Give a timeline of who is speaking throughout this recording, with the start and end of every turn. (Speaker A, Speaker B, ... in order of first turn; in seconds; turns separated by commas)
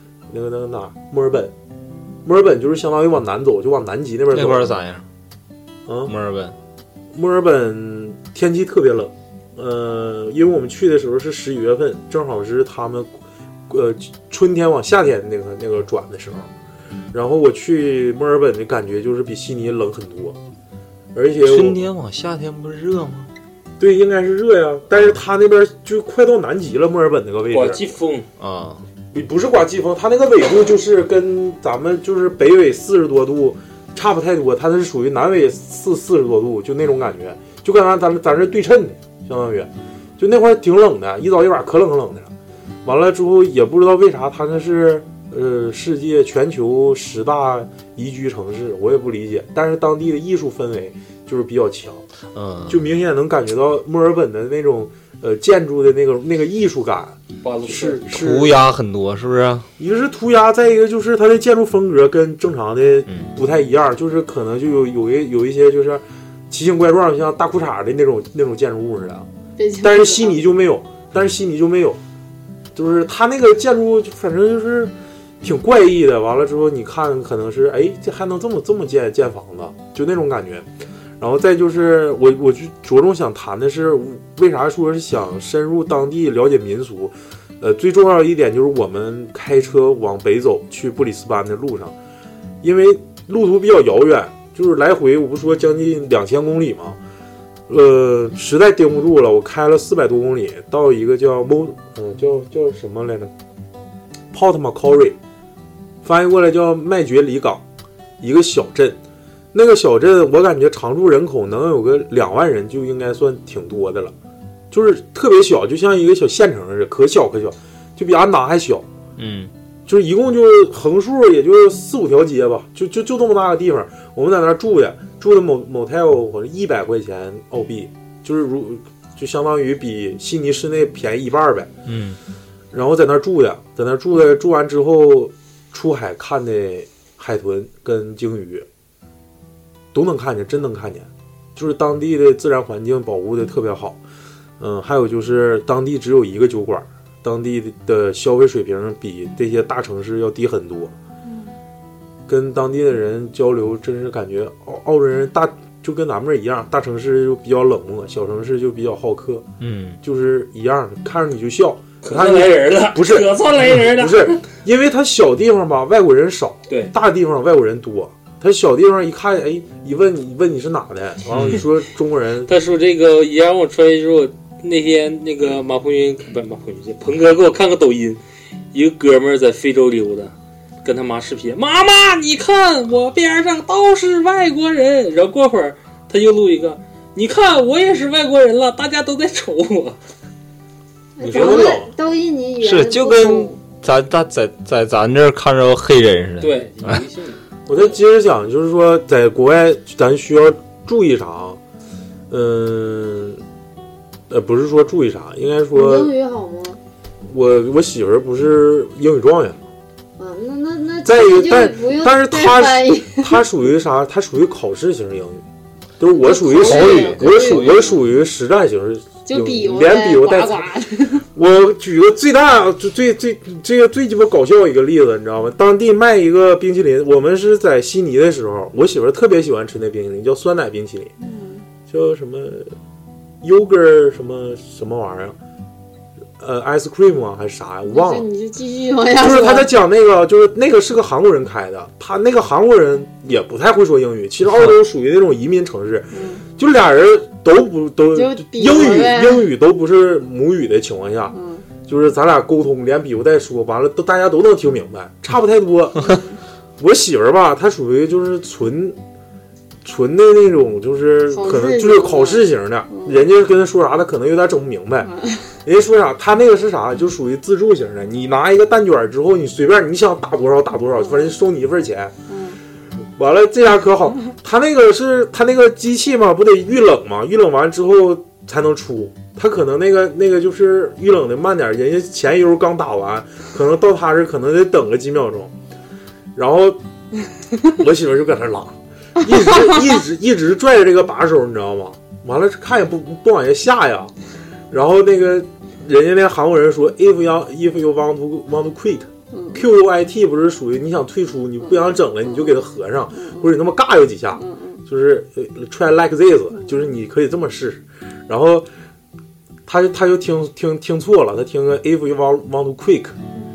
Speaker A: 0.3-1.5, Speaker A: 2.2-4.8, Speaker B: 4.3-5.0, Speaker A: 5.9-6.1, Speaker B: 6.1-6.5, Speaker A: 7.1-13.1, Speaker A: 13.7-16.5, Speaker A: 17.1-20.4, Speaker A: 21.1-21.8, Speaker B: 21.4-23.3, Speaker A: 23.8-27.9, Speaker C: 27.5-28.3, Speaker B: 28.4-28.8, Speaker A: 29.1-42.3, Speaker A: 42.9-52.0, Speaker B: 52.3-52.8, Speaker A: 52.7-58.6, Speaker C: 57.4-58.0, Speaker B: 58.1-59.7, Speaker A: 59.8-69.3, Speaker D: 69.6-70.5, Speaker A: 69.8-72.0, Speaker A: 72.8-80.7, Speaker A: 81.2-92.0, Speaker A: 92.6-97.0, Speaker A: 97.7-103.3, Speaker A: 104.3-105.2, Speaker A: 106.0-107.6, Speaker A: 108.2-109.0, Speaker A: 109.5-114.1, Speaker A: 114.7-118.9, Speaker B: 119.2-119.5, Speaker A: 119.9-131.7, Speaker B: 131.9-132.2, Speaker A: 132.7-138.7, Speaker A: 139.9-144.0, Speaker A: 144.6-150.9, Speaker A: 152.3-159.5, Speaker B: 159.6-160.0, Speaker A: 160.0-172.5, Speaker C: 162.0-164.4, Speaker C: 172.5-178.2, Speaker C: 178.7-180.3, Speaker C: 180.8-190.0, Speaker D: 191.2-193.6, Speaker A: 191.2-191.9, Speaker C: 191.3-191.7, Speaker B: 192.6-197.0, Speaker C: 196.4-197.4, Speaker A: 197.7-201.6, Speaker A: 202.3-203.4, Speaker A: 204.3-206.1, Speaker D: 205.7-206.8, Speaker A: 207.3-209.7, Speaker D: 210.2-213.4, Speaker A: 211.0-215.4, Speaker A: 216.0-220.7, Speaker D: 216.1-218.0, Speaker B: 216.5-217.8, Speaker D: 219.3-221.2, Speaker A: 221.3-231.1, Speaker D: 231.2-231.6, Speaker A: 231.9-232.7, Speaker A: 233.4-235.4, Speaker A: 236.4-238.3, Speaker D: 237.9-239.7, Speaker A: 239.2-251.4, Speaker D: 246.1-246.4, Speaker D: 248.1-249.5, Speaker D: 251.3-251.7, Speaker A: 251.9-256.2, Speaker A: 256.8-259.0, Speaker A: 259.8-265.1, Speaker D: 261.3-263.2, Speaker D: 265.0-265.5, Speaker A: 265.6-272.1, Speaker D: 271.0-271.2, Speaker D: 272.3-272.6, Speaker A: 273.2-285.5, Speaker A: 286.4-286.8, Speaker A: 287.7-294.1, Speaker A: 294.7-308.7, Speaker D: 299.3-299.6, Speaker D: 301.7-302.6, Speaker D: 303.1-303.5, Speaker D: 304.4-304.8, Speaker A: 309.7-313.2